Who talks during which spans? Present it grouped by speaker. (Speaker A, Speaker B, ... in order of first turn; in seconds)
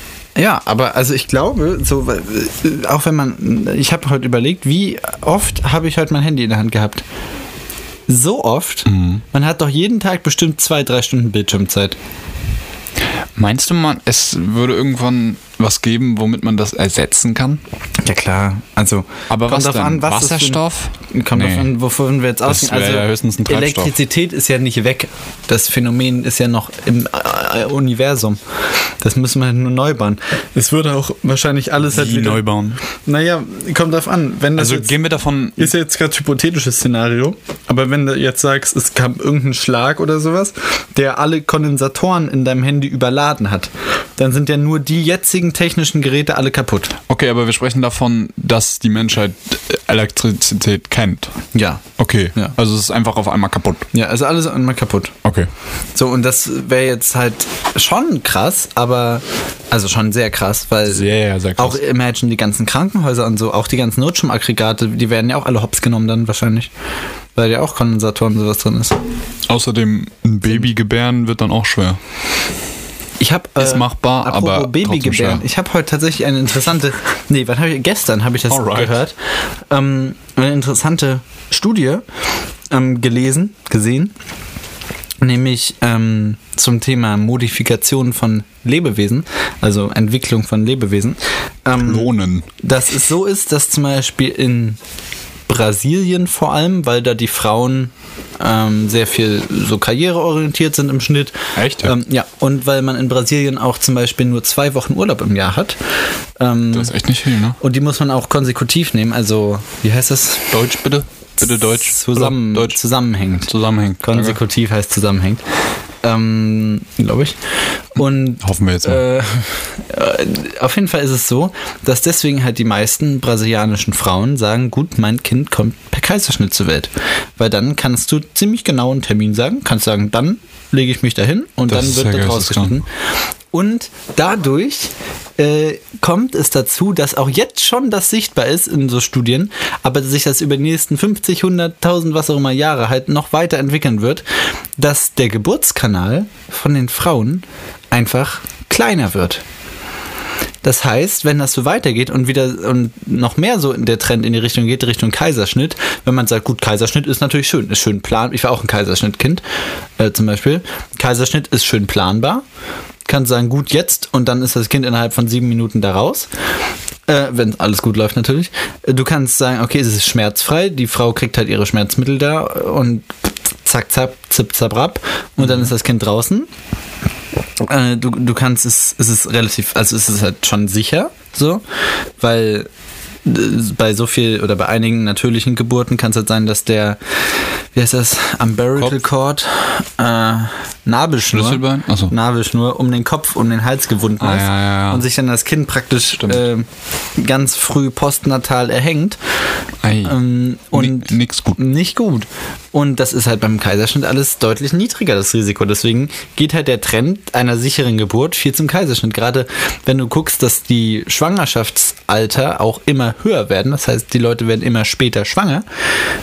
Speaker A: 0.3-7.0, 8.1-12.0, 18.0-28.4, 29.0-32.4, 33.0-34.9, 35.6-46.9, 51.5-51.8, 53.9-55.2, 55.9-66.7, 67.3-69.0, 73.2-79.1, 79.7-82.0, 82.7-84.1, 85.2-94.8, 95.5-105.8, 106.4-106.9, 107.6-110.5, 111.4-113.5, 114.0-115.4, 116.0-117.3, 117.9-132.9, 133.5-144.2, 144.8-149.4, 150.6-159.4, 160.0-162.4, 163.1-166.3, 167.1-176.5, 177.6-181.6, 182.2-182.7, 183.2-187.0, 187.7-199.2, 200.0-215.6
Speaker B: 8.8-9.2, 13.4-17.6, 19.3-21.7, 22.4-23.9, 31.8-32.8, 34.6-35.7, 47.1-51.3, 52.0-53.9, 55.2-55.5, 60.9-61.8, 69.5-72.0, 73.6-75.4, 78.5-79.0, 91.8-92.5, 101.5-101.9, 106.7-107.6, 110.5-112.8, 113.5-114.4, 118.4-119.0, 131.7-132.8, 175.4-175.7, 191.3-192.1, 194.2-195.1, 196.2-196.4, 199.8-200.2, 200.7-201.6